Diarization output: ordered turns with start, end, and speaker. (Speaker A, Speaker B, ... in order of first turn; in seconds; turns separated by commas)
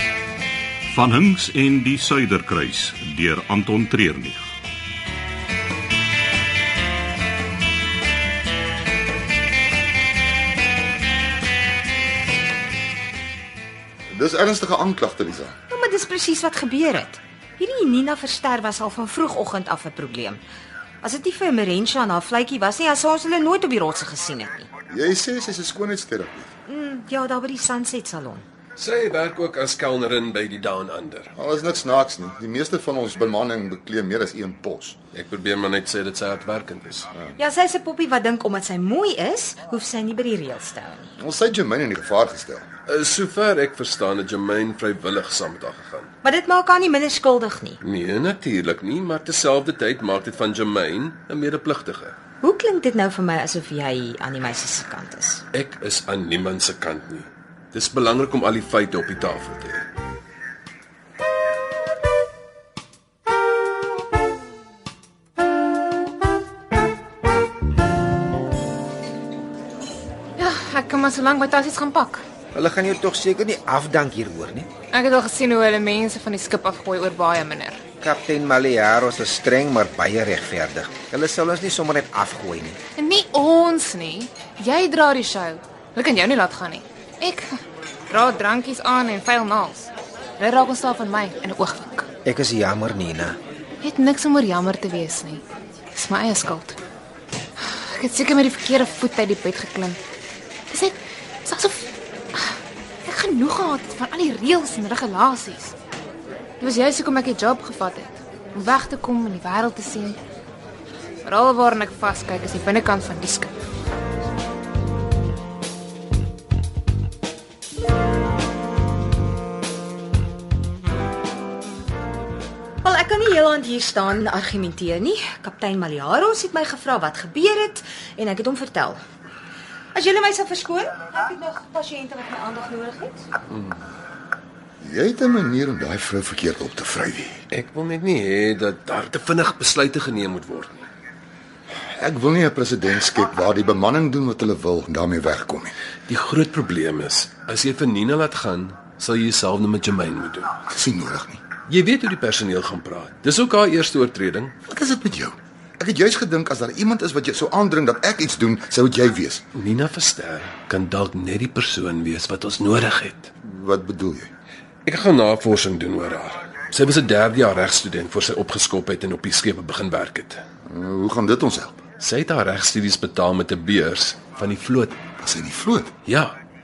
Speaker A: 0.9-4.4, Speaker B: 14.1-15.6, Speaker C: 15.7-20.4, Speaker C: 21.0-24.7, Speaker B: 24.9-26.5, Speaker C: 26.7-28.4, Speaker D: 28.8-31.3, Speaker B: 31.4-35.0, Speaker D: 35.1-37.1, Speaker C: 37.4-41.1, Speaker B: 41.2-42.7, Speaker D: 42.9-46.1, Speaker C: 46.2-47.8, Speaker D: 47.8-52.1, Speaker C: 52.4-55.4, Speaker D: 55.5-59.8, Speaker E: 70.4-72.2, Speaker F: 72.5-74.7, Speaker E: 74.9-77.8, Speaker F: 78.0-82.8, Speaker E: 83.0-87.6, Speaker E: 88.1-92.1, Speaker F: 92.2-93.4, Speaker E: 93.8-96.8, Speaker E: 97.6-100.0, Speaker E: 100.7-105.7, Speaker E: 106.6-110.2, Speaker E: 111.2-113.5, Speaker C: 122.8-129.0, Speaker C: 129.9-133.2, Speaker B: 134.8-137.4, Speaker D: 137.5-140.9, Speaker B: 142.0-145.7, Speaker D: 146.1-150.5, Speaker B: 150.7-151.4, Speaker D: 151.7-154.5, Speaker B: 154.7-159.4, Speaker D: 159.6-163.3, Speaker B: 163.4-164.3, Speaker D: 164.9-170.4, Speaker B: 170.7-171.8, Speaker D: 172.0-175.0, Speaker B: 175.2-175.9, Speaker D: 176.1-176.3